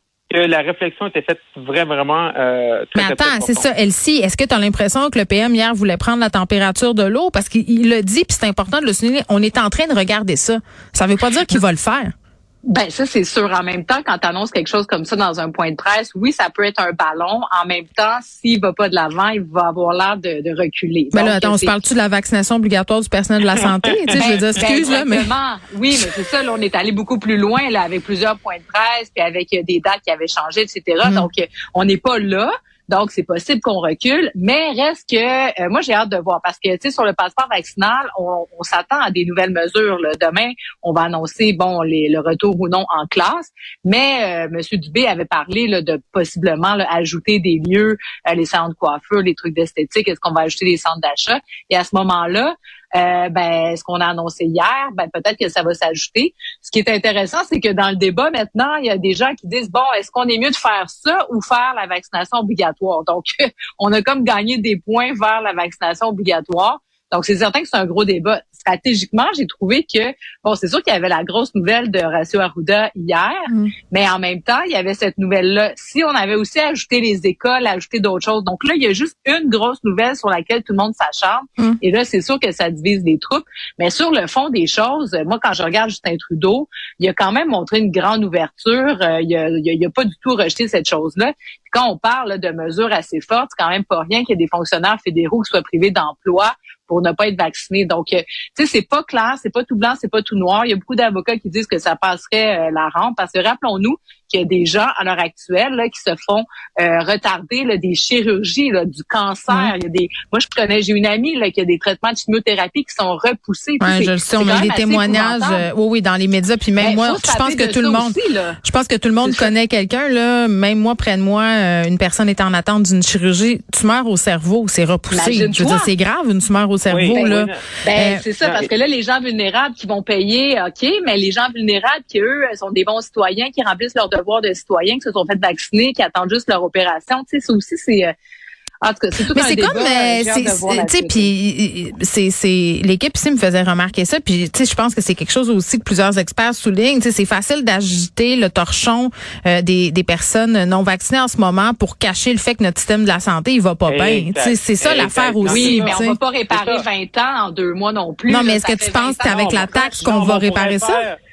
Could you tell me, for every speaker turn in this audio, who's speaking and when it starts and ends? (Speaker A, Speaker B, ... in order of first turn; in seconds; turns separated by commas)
Speaker A: 0.3-3.7, Speaker B: 2.9-12.1, Speaker C: 12.7-21.8, Speaker B: 21.1-25.3, Speaker C: 24.2-115.7, Speaker B: 31.0-31.3, Speaker B: 113.8-128.2, Speaker C: 116.8-118.6, Speaker C: 119.2-119.5, Speaker C: 125.1-125.9, Speaker A: 126.9-127.7, Speaker C: 127.1-138.1, Speaker A: 128.4-128.7, Speaker C: 138.8-141.3, Speaker B: 139.3-156.2, Speaker A: 153.9-156.8, Speaker C: 155.4-160.2, Speaker B: 158.3-161.0, Speaker A: 159.2-161.2